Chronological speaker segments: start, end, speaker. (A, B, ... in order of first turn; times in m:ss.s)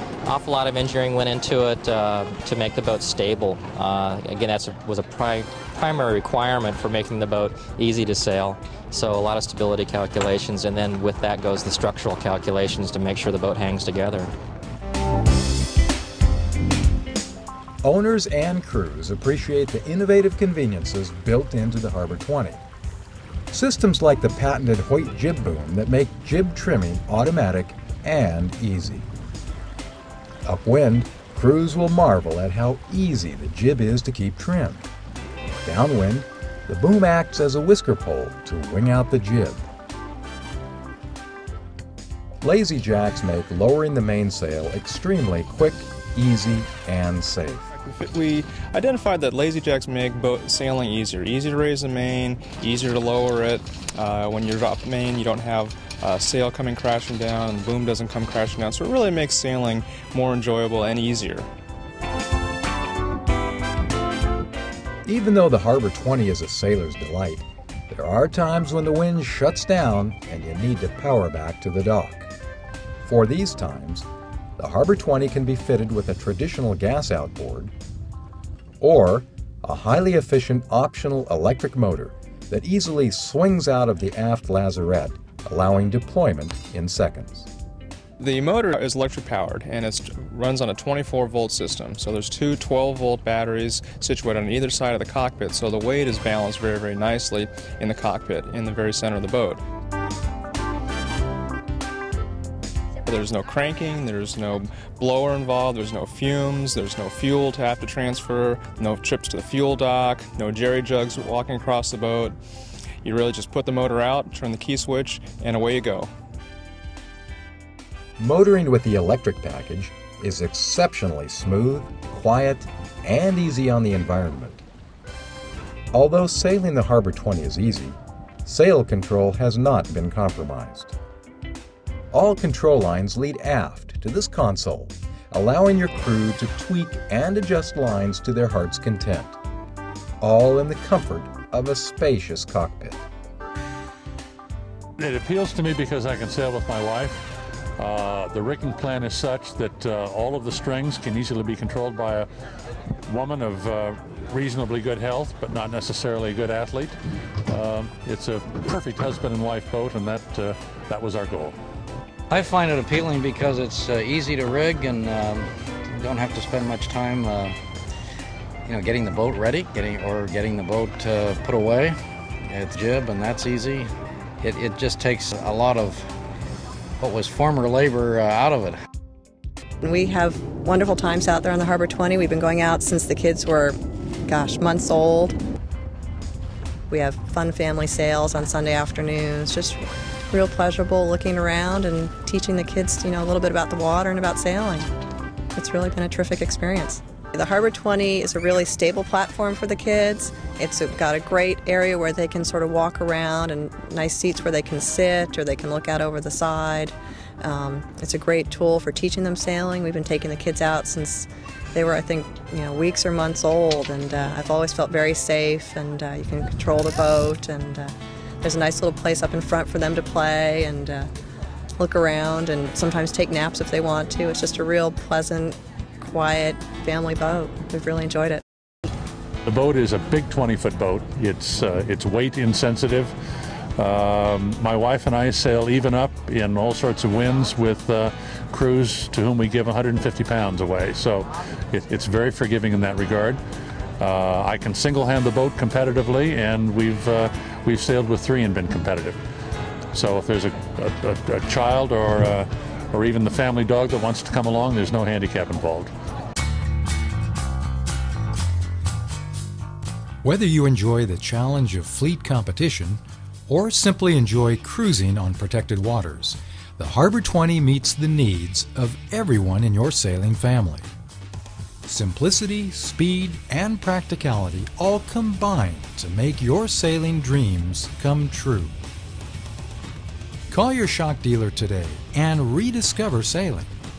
0:00.2-0:14.3 A
0:17.8-0:22.6 B
0:23.5-0:29.1 B
0:30.4-0:34.9 B
0:35.6-0:39.6 B
0:42.4-0:47.7 B
0:47.8-1:01.5 C
1:05.0-1:12.3 B
1:13.0-1:17.7 B
1:18.8-1:27.5 B
1:28.2-1:39.6 C
1:43.0-1:52.4 C
1:53.0-1:56.1 C
1:58.2-2:04.6 B
2:05.9-2:10.9 B
2:12.1-2:19.4 B
2:20.2-2:23.0 B
2:25.0-2:27.2 D
2:27.8-2:32.3 D
2:33.1-2:37.0 D
2:37.5-2:41.6 D
2:42.3-2:47.6 E
2:48.6-2:52.0 E
2:52.5-2:53.9 E
2:54.4-2:56.0 E
2:57.0-2:58.8 E
2:59.8-3:03.8 F
3:04.3-3:05.4 F
3:06.9-3:09.8 F
3:10.3-3:14.9 F
3:15.5-3:37.9 F
3:38.4-3:41.1 F
3:41.8-3:48.4 F
3:49.4-3:53.1 D
3:53.8-4:03.4 D
4:04.0-4:09.2 D
4:09.9-4:15.9 D
4:20.2-4:30.9 B
4:31.8-4:38.8 B
4:40.5-4:43.8 B